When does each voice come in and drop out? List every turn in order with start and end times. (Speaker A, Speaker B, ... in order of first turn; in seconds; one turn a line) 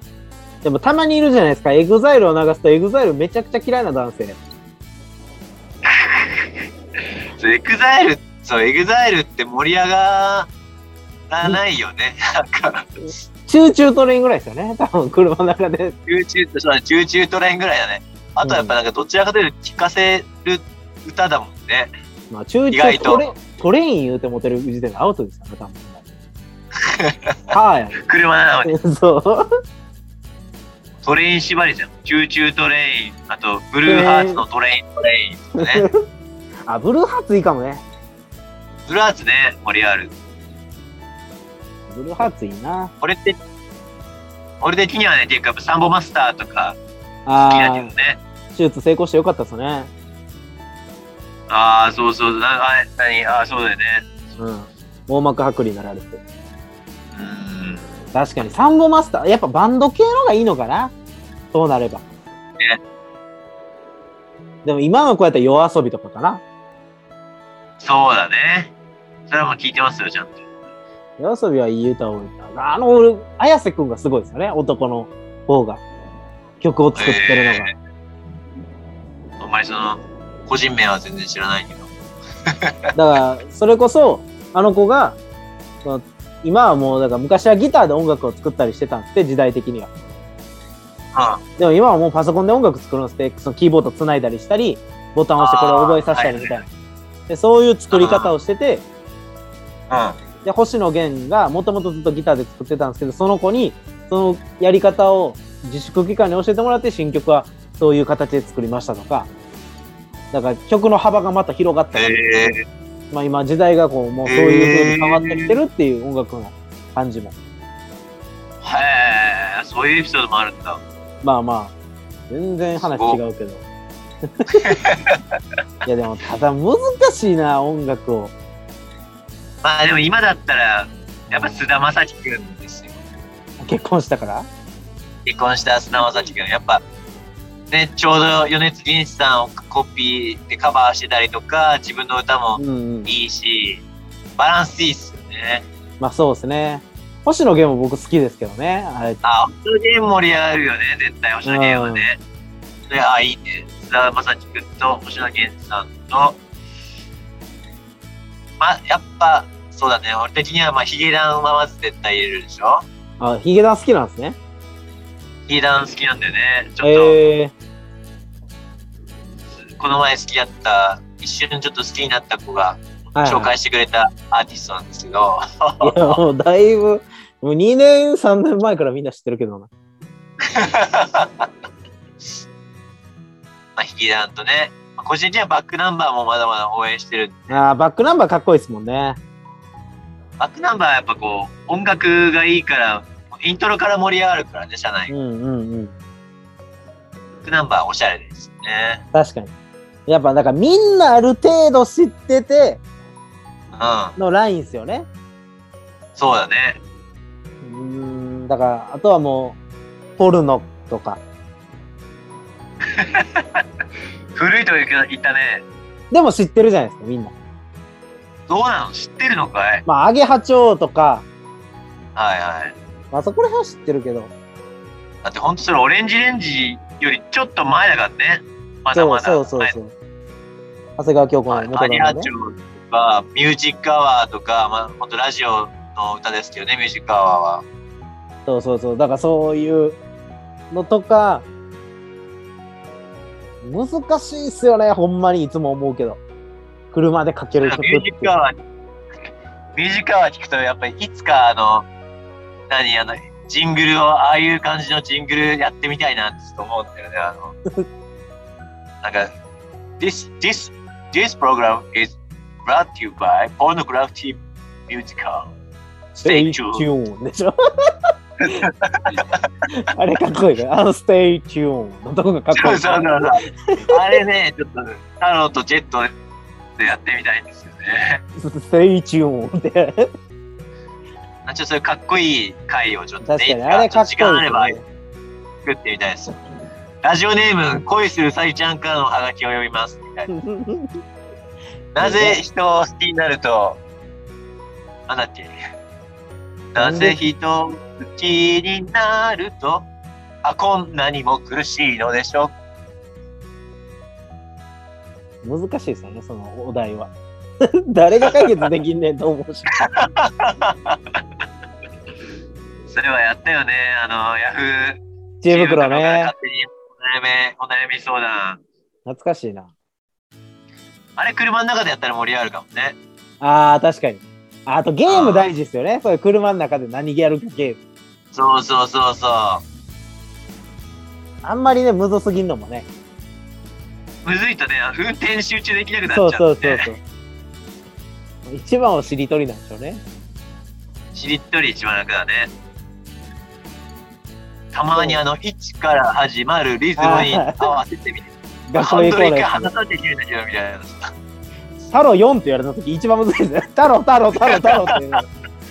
Speaker A: 0.6-4.4
Speaker B: 5.8-6.6
Speaker B: 7.4-10.5
Speaker B: 11.3-12.9
Speaker A: 13.5-15.9
Speaker B: 16.1-21.9
Speaker A: 18.4-18.7
Speaker A: 22.3-26.0
Speaker B: 22.7-23.2
Speaker B: 26.8-28.7
Speaker A: 27.5-28.0
Speaker A: 28.6-29.5
Speaker B: 31.0-35.9
Speaker A: 33.9-34.4
Speaker A: 35.6-36.0
Speaker A: 36.7-37.8
Speaker B: 38.9-40.1
Speaker A: 41.9-42.9
Speaker B: 43.0-43.4
Speaker B: 44.6-46.8
Speaker A: 47.2-47.9
Speaker B: 47.4-48.2
Speaker A: 48.5-49.9
Speaker B: 51.5-54.1
Speaker A: 54.4-56.2
Speaker B: 57.1-57.9
Speaker A: 58.1-60.9
Speaker A: 61.5-62.0
Speaker A: 64.6-66.4
Speaker B: 67.8-68.7
Speaker B: 69.3-70.4
Speaker A: 71.2-75.8
Speaker A: 76.6-77.7
Speaker B: 77.0-77.7
Speaker B: 79.4-81.9
Speaker B: 82.5-82.9
Speaker A: 82.9-85.2
Speaker A: 85.8-89.9
Speaker B: 91.1-91.4
Speaker A: 91.6-96.7
Speaker B: 95.4-96.6
Speaker A: 97.3-98.8
Speaker B: 97.9-98.3
Speaker B: 99.9-100.2
Speaker A: 100.4-109.3
Speaker A: 110.3-112.5
Speaker B: 111.9-112.6
Speaker A: 113.1-117.3
Speaker B: 114.3-115.5
Speaker B: 118.6-120.8
Speaker A: 121.2-121.7
Speaker A: 122.3-123.6
Speaker A: 124.4-124.8
Speaker B: 124.6-125.2
Speaker A: 125.8-128.3
Speaker B: 129.6-133.0
Speaker A: 131.3-131.7
Speaker A: 133.6-134.5
Speaker B: 135.2-136.8
Speaker B: 137.7-143.8
Speaker A: 142.6-143.1
Speaker B: 144.4-145.7
Speaker A: 146.0-149.2
Speaker B: 149.2-152.2
Speaker A: 151.4-152.1
Speaker B: 152.9-156.4
Speaker B: 158.6-162.8
Speaker A: 163.2-164.4
Speaker B: 165.5-167.2
Speaker A: 166.8-167.5
Speaker B: 169.7-176.2
Speaker A: 173.1-173.5
Speaker A: 175.8-179.7
Speaker B: 180.4-181.5
Speaker B: 183.8-187.6
Speaker A: 187.5-189.2
Speaker B: 190.4-195.1
Speaker A: 195.1-195.9
Speaker B: 197.4-199.0
Speaker A: 199.1-199.5
Speaker A: 200.1-202.8
Speaker B: 203.7-204.2
Speaker A: 204.2-205.1
Speaker B: 206.2-206.8
Speaker A: 207.6-209.6
Speaker A: 210.2-211.2
Speaker B: 212.9-213.6
Speaker B: 214.3-215.6
Speaker A: 216.1-217.3
Speaker B: 218.5-219.8
Speaker A: 219.8-221.2
Speaker B: 222.2-222.8
Speaker A: 223.1-224.3
Speaker B: 225.2-229.7
Speaker A: 228.9-229.9
Speaker A: 231.0-232.3
Speaker B: 231.5-237.6
Speaker A: 238.4-240.0
Speaker A: 240.7-241.4
Speaker A: 243.6-246.2
Speaker A: 246.9-248.3
Speaker B: 247.6-248.6
Speaker B: 249.7-251.9
Speaker B: 252.7-257.6
Speaker B: 259.0-259.3
Speaker B: 260.0-265.5
Speaker A: 266.1-267.9
Speaker B: 266.2-266.9
Speaker B: 268.4-269.5
Speaker A: 269.7-273.9
Speaker B: 272.5-276.1
Speaker B: 276.8-278.2
Speaker A: 278.4-280.1
Speaker B: 281.4-284.8
Speaker A: 283.2-284.8
Speaker B: 285.6-286.4
Speaker B: 287.0-290.3
Speaker A: 290.3-291.0
Speaker B: 291.9-293.8
Speaker A: 292.0-292.4
Speaker B: 295.1-295.5
Speaker B: 296.7-299.9
Speaker A: 296.8-297.2
Speaker B: 300.4-302.5
Speaker A: 305.4-307.1
Speaker A: 307.6-309.7
Speaker B: 309.9-311.2
Speaker B: 312.9-318.6
Speaker A: 315.4-316.3
Speaker A: 319.1-319.7
Speaker B: 321.2-322.9
Speaker A: 323.4-327.8
Speaker B: 325.1-325.5
Speaker B: 328.3-329.6
Speaker A: 331.4-332.9
Speaker B: 334.2-336.9
Speaker A: 336.1-337.0
Speaker A: 338.5-340.0
Speaker B: 341.1-342.5
Speaker B: 344.7-351.1
Speaker A: 344.9-345.2
Speaker A: 347.0-347.8
Speaker A: 348.7-349.7
Speaker A: 351.9-355.3
Speaker B: 354.4-354.9